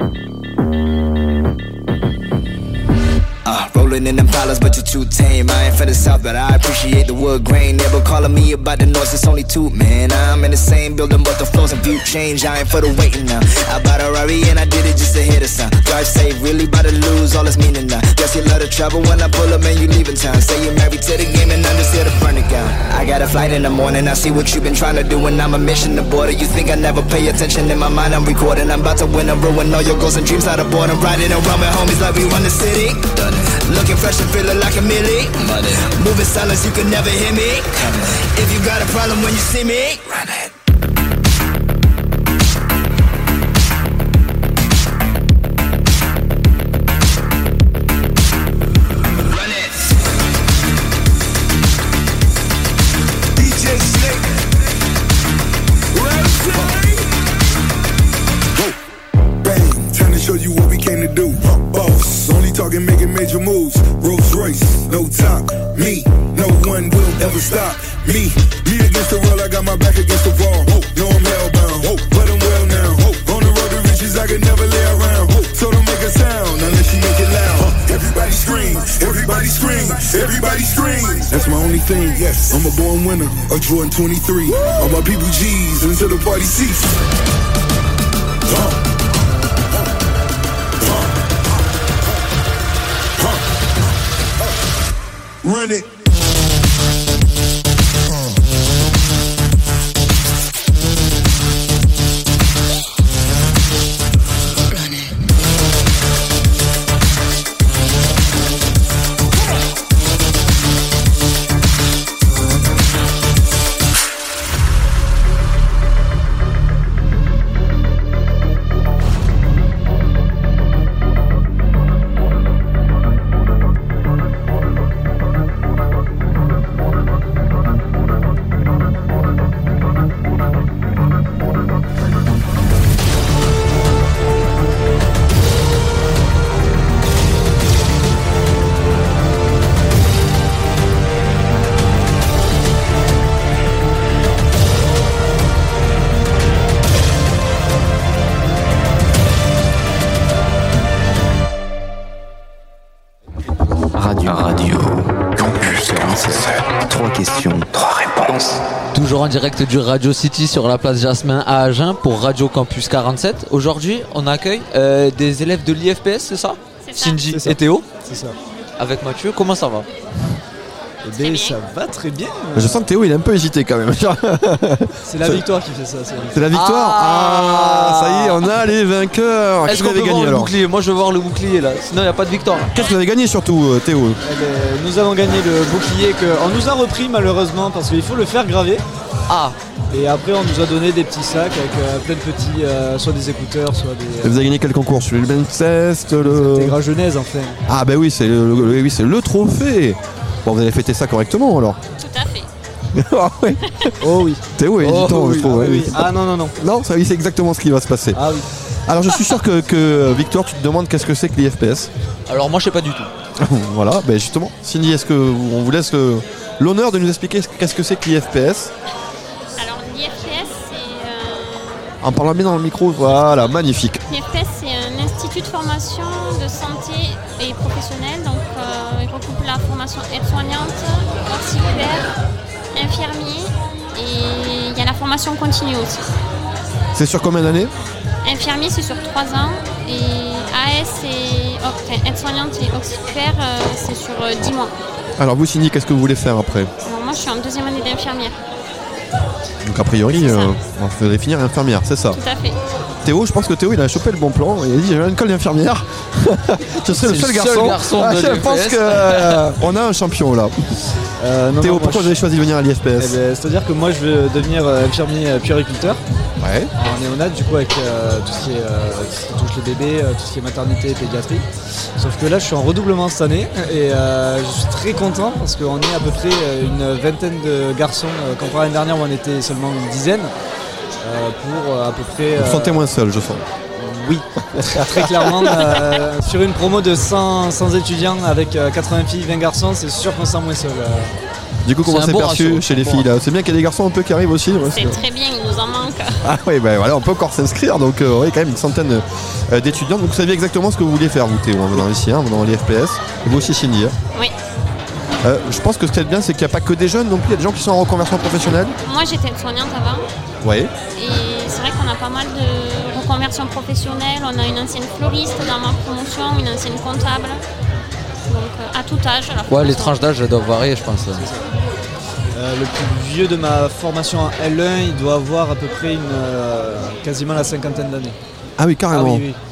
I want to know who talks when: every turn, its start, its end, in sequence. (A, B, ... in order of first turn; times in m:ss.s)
0:03.4-0:40.5 A
0:49.3-0:49.8 A
0:53.4-0:54.4 B
0:55.9-0:57.0 B
0:59.4-1:27.0 B
1:28.5-1:28.8 B
1:30.8-1:31.1 B
1:35.4-1:35.9 B
2:33.9-2:38.6 C
2:38.9-2:47.9 D
2:46.8-2:47.2 E
2:47.3-2:48.4 F
2:48.8-2:49.9 D
2:51.0-2:52.9 F
2:51.2-2:51.6 E
2:52.6-2:55.4 G
2:55.0-2:56.4 F
2:56.3-3:00.5 G
2:56.5-2:58.5 D
2:59.7-3:02.7 D
3:02.7-3:04.2 G
3:04.2-3:08.8 F
3:09.3-3:09.6 D
3:09.9-3:14.5 F
3:14.2-3:16.8 G
3:16.2-3:17.6 F
3:17.7-3:21.8 G
3:22.0-3:22.5 E
3:22.9-3:23.9 G
3:24.0-3:26.6 F
3:24.5-3:28.2 G
3:24.8-3:25.3 D
3:28.1-3:28.5 F
3:28.9-3:31.9 G
3:32.3-3:33.1 D
3:33.4-3:38.7 G
3:39.6-3:42.0 E
3:42.0-3:44.0 G
3:43.1-3:43.6 E
3:44.1-3:52.1 E
3:52.7-3:56.0 E
3:56.9-3:57.7 G
3:58.2-4:04.7 E
4:05.2-4:06.7 G
4:06.8-4:08.4 E
4:09.6-4:12.2 G
4:10.1-4:10.6 E
4:12.2-4:12.6 E
4:13.0-4:20.5 G
4:16.9-4:19.4 D
4:21.2-4:22.2 F
4:21.6-4:23.2 G
4:23.0-4:26.0 F
4:26.4-4:26.7 G
4:26.8-4:31.5 F
4:32.0-4:40.3 F
4:41.0-4:42.9 F
4:42.4-4:43.4 G
4:43.8-4:51.1 F
4:44.6-4:45.8 G
4:51.6-4:55.0 G
4:51.8-4:53.0 D
4:54.6-4:56.2 E
4:56.2-5:04.0 G
5:05.2-5:08.8 G
5:08.8-5:10.1 E
5:10.4-5:10.7 G
5:11.0-5:17.4 E
5:18.3-5:20.0 E
5:19.5-5:21.3 D
5:21.1-5:21.5 F
5:22.3-5:28.2 F
5:28.6-5:29.2 G
5:28.9-5:29.4 F